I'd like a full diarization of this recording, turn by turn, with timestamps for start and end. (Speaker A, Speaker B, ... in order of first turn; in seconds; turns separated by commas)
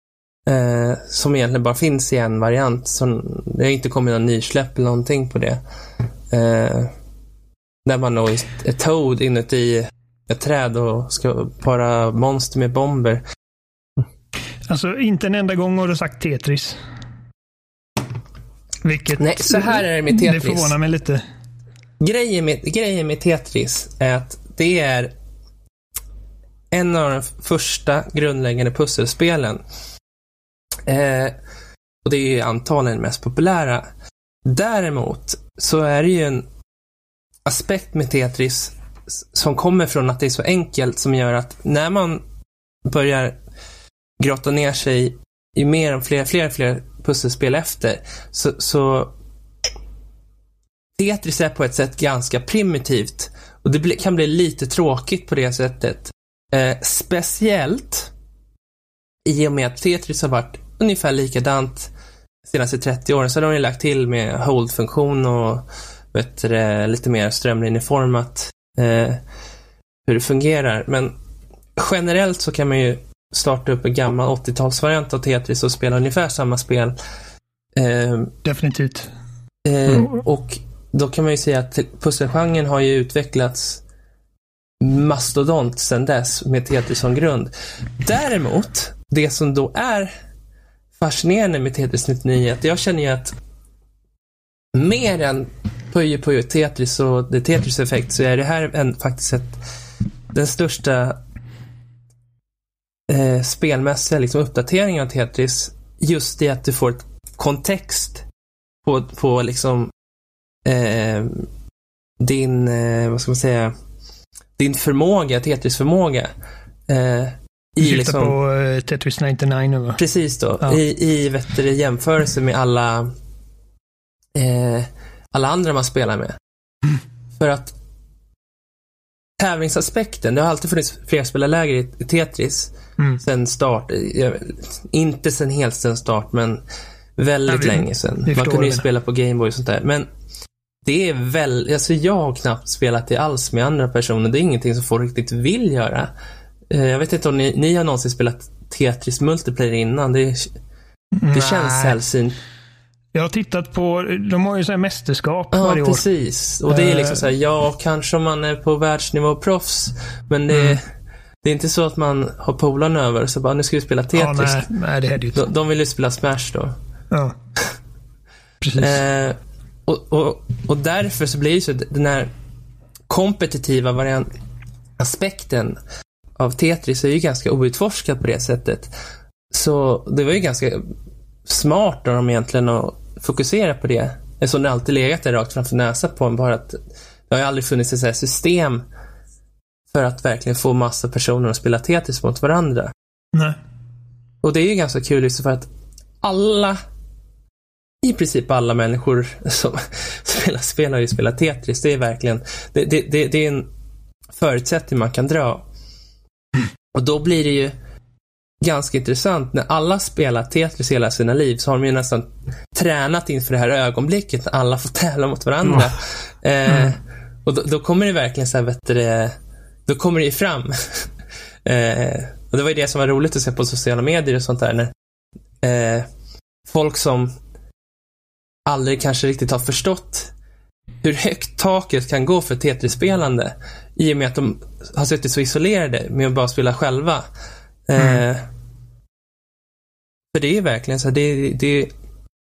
Speaker A: 0.5-5.6, Speaker A: 6.3-6.9, Speaker A: 7.8-13.2, Speaker B: 14.7-16.8, Speaker B: 18.8-21.2, Speaker A: 19.2-20.7, Speaker A: 22.0-25.1, Speaker A: 26.7-29.6, Speaker A: 30.9-31.3, Speaker A: 32.0-33.9, Speaker A: 34.4-36.5, Speaker A: 37.5-42.2, Speaker A: 42.9-43.4, Speaker A: 44.2-49.1, Speaker A: 51.0-58.1, Speaker A: 59.2-61.9, Speaker A: 62.5-69.2, Speaker A: 70.1-71.1, Speaker A: 71.8-77.0, Speaker A: 77.7-78.3, Speaker B: 78.4-79.1, Speaker A: 79.6-83.8, Speaker A: 84.8-90.1, Speaker A: 91.0-93.3, Speaker A: 94.7-99.6, Speaker A: 100.3-101.2, Speaker A: 103.1-108.2, Speaker A: 108.8-109.9, Speaker A: 110.6-111.5, Speaker A: 112.2-113.7, Speaker A: 114.6-116.3, Speaker A: 116.9-118.3, Speaker B: 117.8-120.0, Speaker A: 120.0-123.1, Speaker A: 124.3-126.4, Speaker A: 127.3-127.7, Speaker A: 129.4-136.6, Speaker A: 137.2-140.1, Speaker B: 137.5-138.8, Speaker A: 140.8-146.1, Speaker A: 146.7-150.5, Speaker B: 151.2-152.0, Speaker A: 151.3-152.4, Speaker B: 153.1-156.0, Speaker A: 155.5-160.8, Speaker B: 156.7-157.2, Speaker B: 160.5-160.8, Speaker A: 161.4-164.6, Speaker B: 164.1-165.4, Speaker A: 165.3-166.8, Speaker B: 168.6-169.0, Speaker A: 168.8-172.3, Speaker A: 173.1-174.3, Speaker A: 175.0-175.8, Speaker A: 176.4-178.9, Speaker A: 179.5-180.9, Speaker A: 181.4-188.8, Speaker A: 189.9-192.9, Speaker A: 194.4-195.7, Speaker A: 196.2-196.8, Speaker A: 198.0-203.7, Speaker A: 204.3-205.6, Speaker A: 206.9-207.7, Speaker A: 208.6-219.3, Speaker B: 216.7-216.9, Speaker A: 219.9-221.1, Speaker A: 221.6-224.9, Speaker A: 225.6-226.1, Speaker A: 226.7-227.3, Speaker A: 228.7-230.3, Speaker A: 231.0-237.3, Speaker A: 237.9-238.4, Speaker A: 240.3-241.9